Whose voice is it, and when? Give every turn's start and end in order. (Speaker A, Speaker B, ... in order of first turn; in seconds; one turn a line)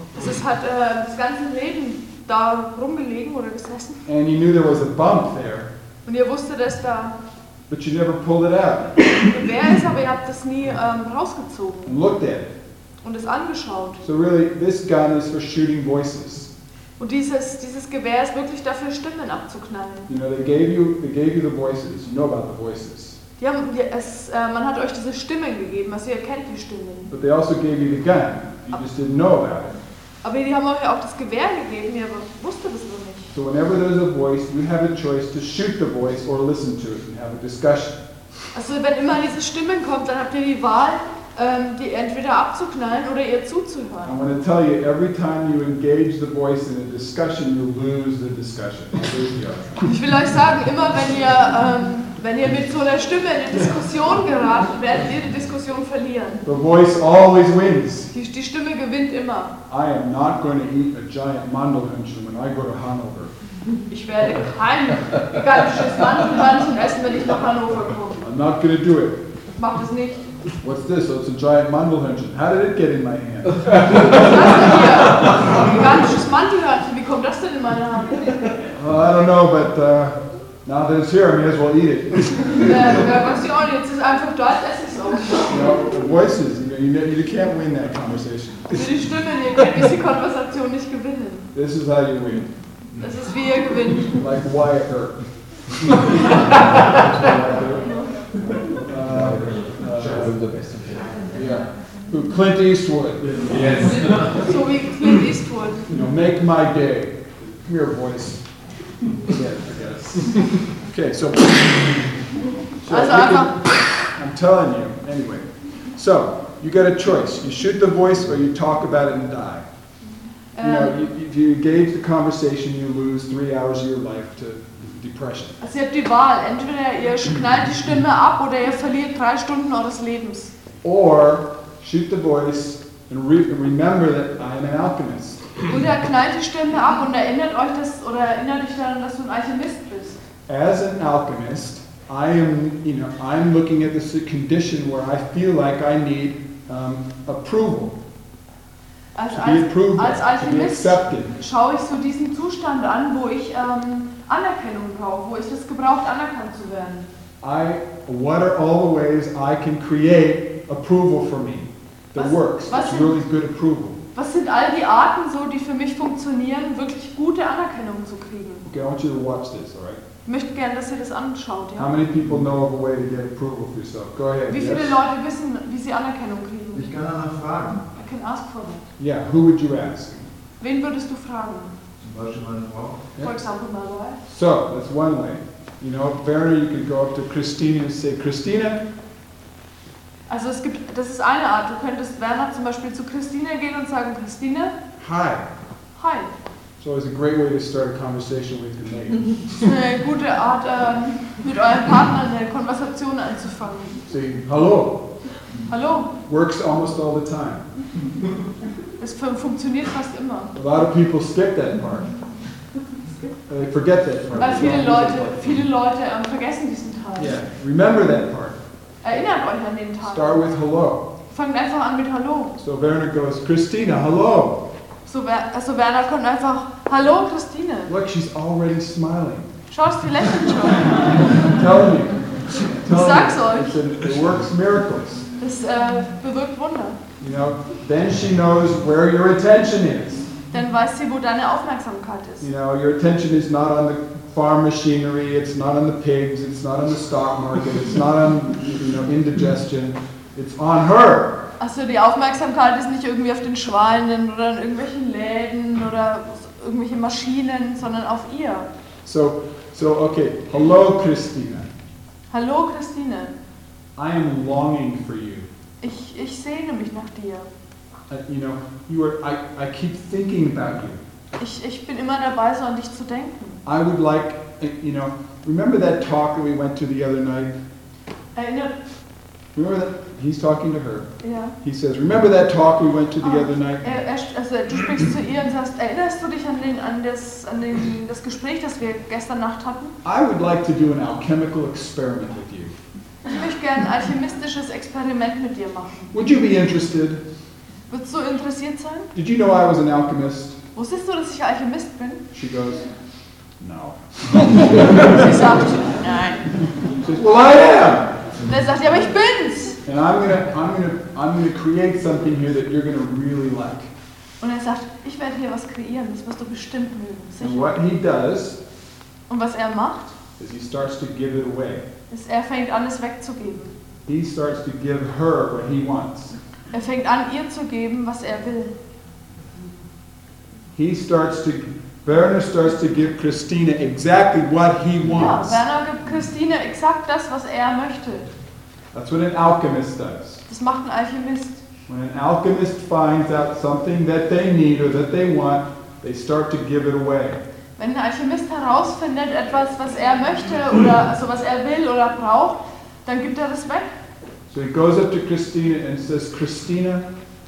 Speaker A: 0.1-4.1
Speaker B: 4.1-5.7
Speaker A: 6.0-7.2
Speaker B: 7.7-9.0
Speaker A: 9.2-11.9
Speaker B: 11.8-12.5
Speaker A: 13.0-14.0
Speaker B: 14.0-16.5
Speaker A: 17.0-20.1
Speaker B: 20.1-23.2
Speaker A: 23.4-27.1
Speaker B: 27.1-29.8
Speaker A: 30.2-33.3
Speaker B: 33.3-38.0
Speaker A: 38.5-44.2
Speaker B: 44.0-49.9
Speaker A: 49.8-56.5
Speaker B: 56.5-58.1
Speaker A: 58.1-59.6
Speaker B: 59.7-63.3
Speaker A: 63.9-68.3
Speaker B: 68.2-69.2
Speaker A: 69.6-70.3
Speaker B: 70.6-74.7
Speaker A: 74.0-78.5
Speaker B: 78.7-82.9
Speaker A: 82.6-85.6
Speaker B: 85.5-88.9
Speaker A: 88.7-91.5
Speaker B: 91.5-92.5
Speaker A: 93.0-94.2
Speaker B: 94.1-95.2
Speaker B: 95.9-97.9
Speaker B: 98.8-100.3
Speaker C: 99.0-101.2
Speaker B: 101.3-104.0
Speaker C: 103.5-104.4
Speaker A: 104.3-105.9
Speaker B: 105.9-108.5
Speaker B: 109.2-112.1
Speaker B: 112.8-119.7
Speaker A: 112.9-113.7
Speaker A: 120.5-121.0
Speaker B: 120.6-125.6
Speaker A: 125.6-130.5
Speaker B: 130.8-135.5
Speaker A: 135.7-140.2
Speaker B: 140.5-148.0
Speaker A: 149.2-157.1
Speaker B: 149.3-151.4
Speaker B: 157.4-164.0
Speaker A: 162.2-163.2
Speaker A: 164.2-168.7
Speaker B: 168.7-170.0
Speaker A: 170.2-171.9
Speaker B: 171.8-175.0
Speaker A: 174.5-177.1
Speaker C: 177.0-177.8
Speaker A: 177.9-178.8
Speaker B: 179.0-180.3
Speaker A: 180.6-181.8
Speaker C: 182.0-183.0
Speaker A: 183.2-184.2
Speaker B: 184.3-188.8
Speaker A: 190.3-194.8
Speaker B: 195.0-195.5
Speaker A: 196.0-196.3
Speaker B: 196.8-199.7
Speaker A: 199.6-204.0
Speaker B: 204.1-205.1
Speaker A: 205.7-206.1
Speaker B: 206.3-207.7
Speaker A: 209.0-210.5
Speaker B: 210.6-212.1
Speaker B: 213.5-215.6
Speaker A: 214.4-217.4
Speaker B: 217.2-218.6
Speaker A: 219.0-220.4
Speaker B: 220.0-221.1
Speaker A: 221.3-222.6
Speaker B: 222.6-224.7
Speaker A: 225.1-227.9
Speaker B: 227.9-229.5
Speaker A: 229.7-231.2
Speaker B: 231.4-235.3
Speaker A: 232.9-233.8
Speaker A: 235.4-237.0
Speaker B: 237.2-240.3
Speaker A: 240.5-242.5
Speaker B: 242.4-251.5
Speaker A: 251.6-258.7
Speaker B: 259.0-261.7
Speaker A: 262.3-263.4
Speaker B: 264.0-265.5
Speaker A: 265.8-267.5
Speaker B: 268.1-271.0
Speaker A: 271.4-273.6
Speaker B: 273.6-277.6
Speaker A: 278.4-278.8
Speaker B: 279.5-283.9
Speaker A: 281.2-281.6
Speaker A: 283.2-290.0
Speaker B: 290.0-292.7
Speaker A: 293.3-296.1
Speaker B: 296.1-297.2
Speaker A: 297.9-299.1
Speaker B: 299.1-300.6
Speaker A: 300.7-302.2
Speaker B: 302.3-302.9
Speaker B: 303.6-305.3
Speaker A: 304.8-306.5
Speaker B: 307.0-308.1
Speaker A: 308.4-309.8
Speaker B: 309.9-313.9
Speaker A: 314.4-317.8
Speaker B: 317.4-318.6
Speaker A: 319.3-320.2
Speaker B: 320.4-321.9
Speaker A: 322.1-323.7
Speaker B: 324.1-326.4
Speaker A: 326.7-328.7
Speaker B: 330.7-335.6
Speaker A: 335.1-338.3
Speaker B: 338.9-340.4
Speaker A: 340.5-341.6
Speaker B: 341.9-347.4
Speaker A: 347.8-354.0
Speaker B: 354.5-357.1